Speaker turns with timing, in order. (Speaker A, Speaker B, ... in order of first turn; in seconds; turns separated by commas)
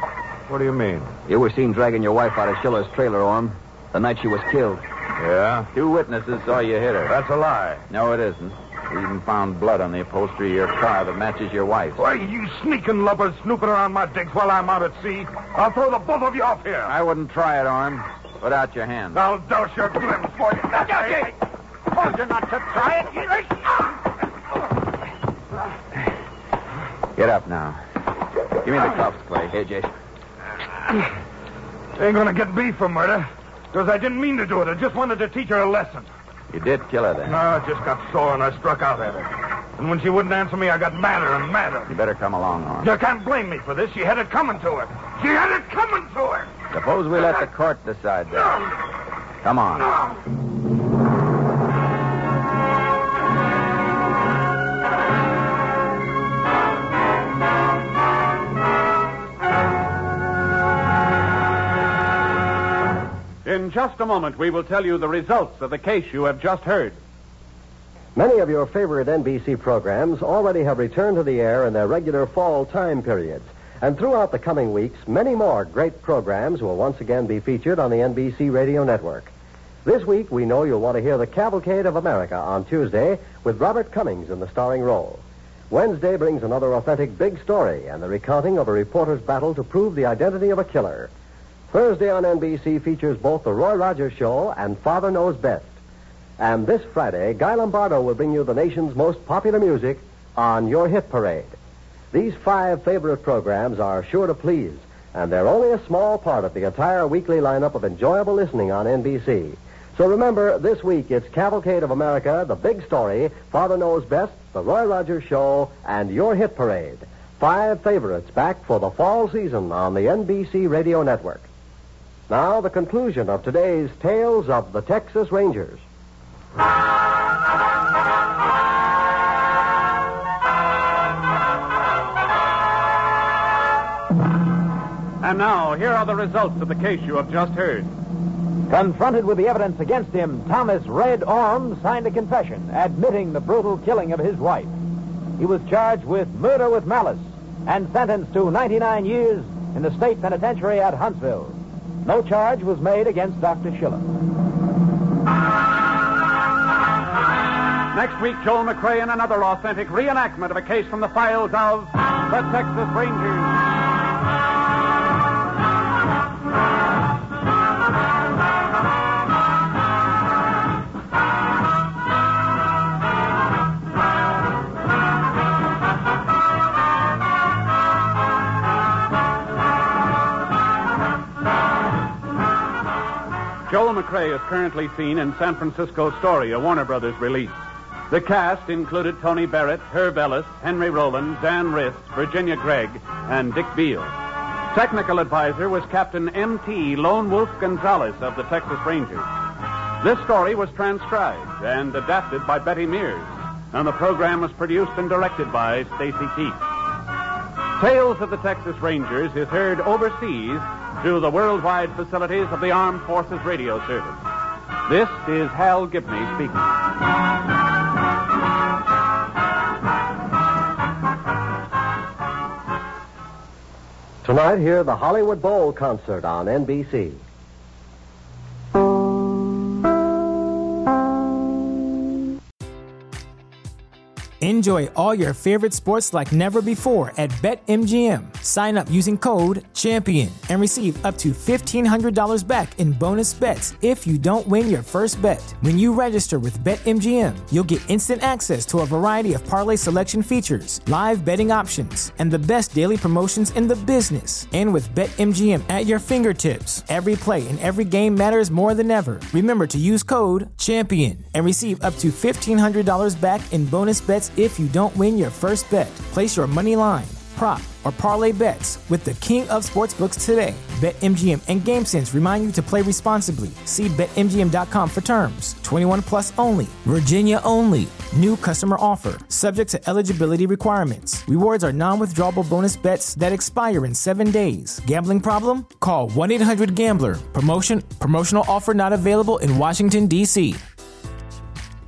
Speaker A: 0.5-1.1, Speaker B: 1.3-4.8, Speaker A: 5.2-5.7, Speaker C: 5.7-7.2, Speaker A: 7.1-7.8, Speaker C: 7.9-12.0, Speaker A: 12.0-16.9, Speaker C: 16.9-19.2, Speaker A: 19.1-21.0, Speaker D: 22.0-23.2, Speaker C: 27.1-27.8, Speaker C: 28.6-29.6, Speaker B: 29.5-29.9, Speaker A: 32.0-36.1, Speaker C: 36.5-37.4, Speaker A: 37.2-41.9, Speaker C: 41.9-42.9, Speaker A: 42.8-46.5, Speaker C: 46.7-48.7, Speaker C: 49.4-49.9, Speaker E: 63.5-67.0, Speaker F: 68.2-79.3, Speaker F: 79.8-91.1, Speaker F: 91.7-95.8, Speaker F: 96.4-101.6, Speaker F: 102.1-121.5, Speaker F: 122.3-125.8, Speaker E: 135.2-137.9, Speaker D: 138.7-144.7, Speaker D: 145.4-154.1, Speaker E: 157.9-163.6, Speaker E: 183.7-187.6, Speaker E: 188.1-194.1, Speaker E: 194.7-199.3, Speaker E: 200.0-206.6, Speaker E: 207.8-214.2, Speaker E: 214.9-216.7, Speaker F: 224.2-227.2, Speaker G: 234.4-290.6